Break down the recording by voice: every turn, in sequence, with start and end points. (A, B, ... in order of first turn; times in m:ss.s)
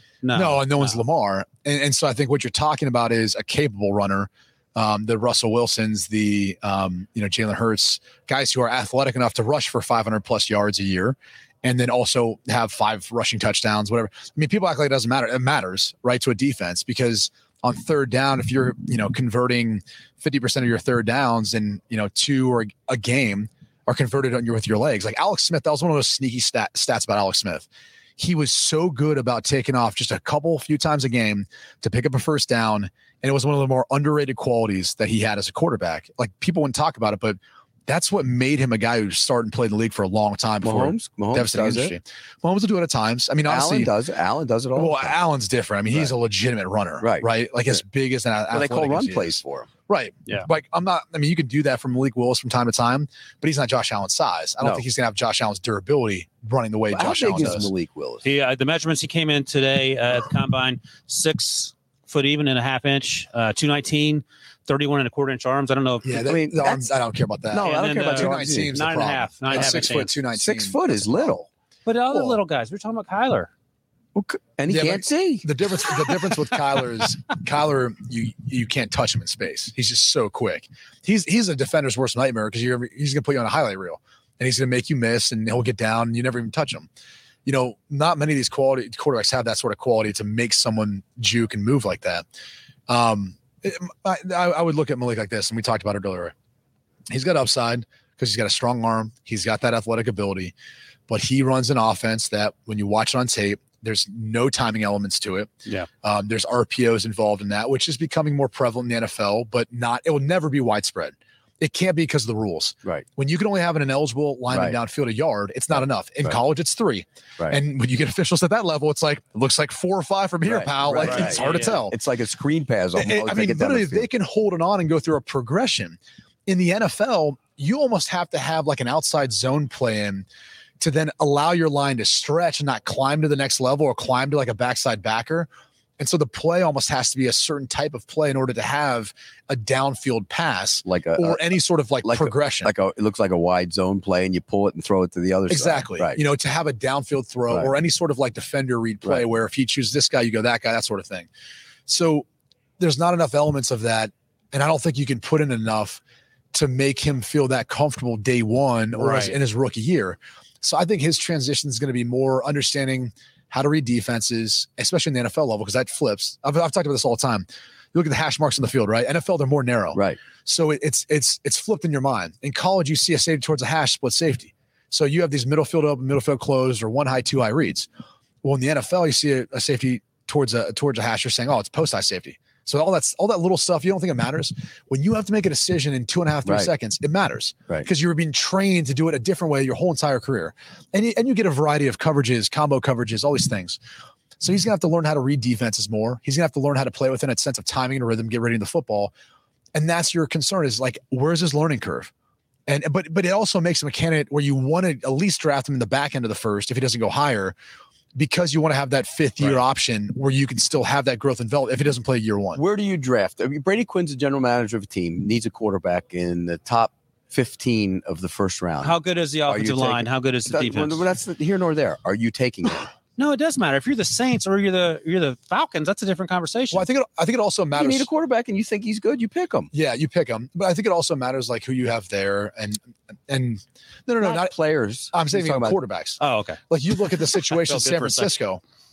0:00.2-0:01.0 A
0:00.3-0:27.7 B
0:28.2-0:43.9 B
0:40.6-0:42.0 C
0:43.5-0:45.2 C
0:44.8-0:57.7 B
0:47.0-0:47.3 C
0:48.5-0:49.7 C
0:56.9-0:58.2 C
0:58.2-1:06.2 A
1:06.0-1:11.2 B
1:06.2-1:06.9 C
1:07.5-1:08.7 C
1:07.6-1:10.2 A
1:09.5-1:11.5 C
1:11.9-1:13.5 A
1:12.1-1:12.4 B
1:14.2-1:15.5 C
1:14.7-1:26.9 B
1:27.4-1:32.2 B
1:32.9-1:36.3 B
1:37.1-1:40.5 B
1:41.1-1:45.5 B
1:46.0-2:02.0 B
1:54.5-1:54.8 C
2:00.4-2:04.1 C
2:01.0-2:01.8 A
2:03.0-2:10.3 B
2:10.8-2:15.5 B
2:16.0-2:22.7 B
2:20.8-2:21.4 C
2:22.0-2:26.2 C
2:25.5-2:31.3 B
2:31.9-2:32.3 B
2:32.8-2:36.0 B
2:36.5-2:57.9 B
2:39.0-2:39.4 A
2:49.9-2:50.2 C
2:58.4-3:13.8 B
3:06.4-3:06.7 C
3:14.4-3:19.1 B
3:19.8-3:22.1 B
3:22.7-3:27.6 B
3:28.2-3:32.6 B
3:32.6-3:42.9 C
3:38.8-3:41.0 A
3:43.2-3:46.9 A
3:46.7-3:48.1 B
3:47.8-3:49.7 C
3:49.7-3:54.5 B
3:54.2-3:55.8 C
3:55.1-3:56.2 B
3:56.2-3:56.6 A
3:56.7-3:58.6 B
3:57.3-3:58.3 A